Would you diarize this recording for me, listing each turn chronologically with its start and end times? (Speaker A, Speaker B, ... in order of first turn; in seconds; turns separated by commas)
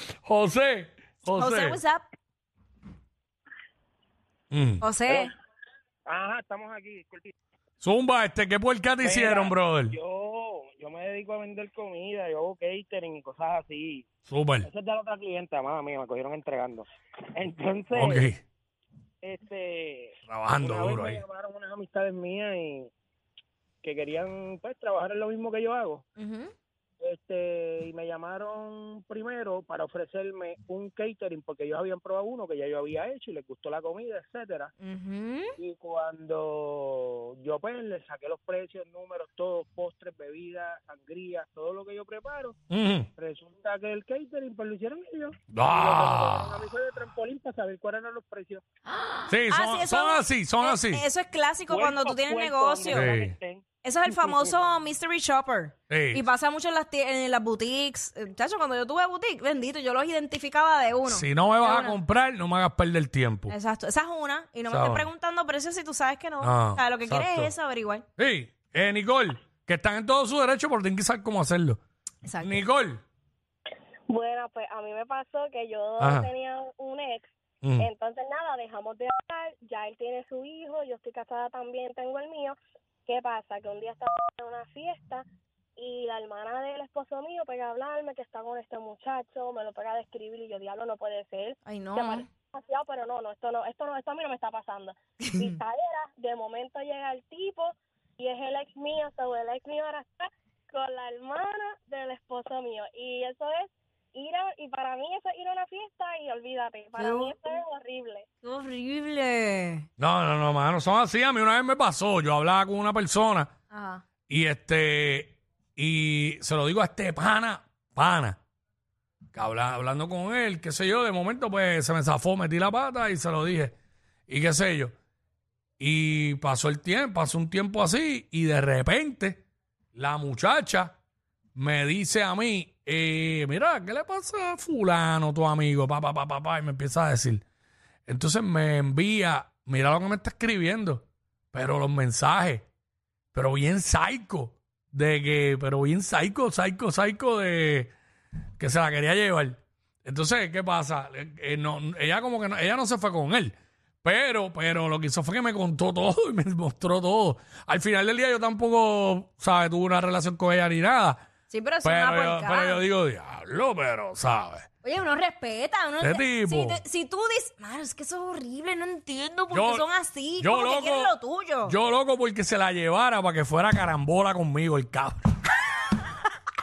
Speaker A: 0.2-1.8, Speaker B: 1.3-2.0, Speaker A: 4.5-4.8, Speaker B: 4.8-5.3, Speaker C: 6.1-7.3, Speaker A: 7.8-10.0, Speaker C: 9.0-14.1, Speaker A: 14.3-14.7, Speaker C: 14.6-18.3, Speaker A: 17.9-18.4, Speaker C: 19.2-22.9, Speaker A: 20.3-21.2, Speaker C: 23.8-26.1, Speaker B: 26.2-26.5, Speaker C: 27.0-34.7, Speaker B: 34.8-35.5, Speaker C: 35.6-42.6, Speaker A: 42.7-43.1, Speaker C: 43.2-48.6, Speaker A: 45.5-46.6, Speaker A: 49.3-51.0, Speaker B: 49.5-53.1, Speaker C: 51.7-54.6, Speaker A: 52.9-53.4, Speaker B: 53.8-62.0, Speaker A: 55.9-56.3, Speaker A: 61.1-63.5, Speaker B: 63.5-68.0, Speaker A: 64.7-65.1, Speaker A: 66.4-67.5, Speaker A: 68.2-71.8, Speaker B: 72.2-72.6, Speaker A: 72.4-73.0, Speaker D: 74.1-85.2, Speaker A: 76.0-76.3, Speaker A: 77.6-77.9, Speaker D: 85.8-108.3, Speaker B: 91.7-92.3, Speaker B: 95.3-95.6, Speaker B: 107.0-107.3, Speaker B: 108.4-109.9, Speaker A: 110.0-113.5, Speaker B: 113.7-114.0, Speaker A: 114.3-118.4, Speaker A: 119.3-123.8, Speaker A: 124.3-124.9, Speaker A: 125.8-129.4, Speaker A: 129.9-130.9, Speaker A: 131.6-137.4, Speaker A: 138.1-142.7, Speaker A: 143.3-147.9, Speaker A: 148.6-161.2, Speaker B: 161.5-162.8, Speaker A: 161.8-164.7, Speaker B: 164.8-171.8, Speaker A: 166.0-166.8, Speaker A: 169.5-175.2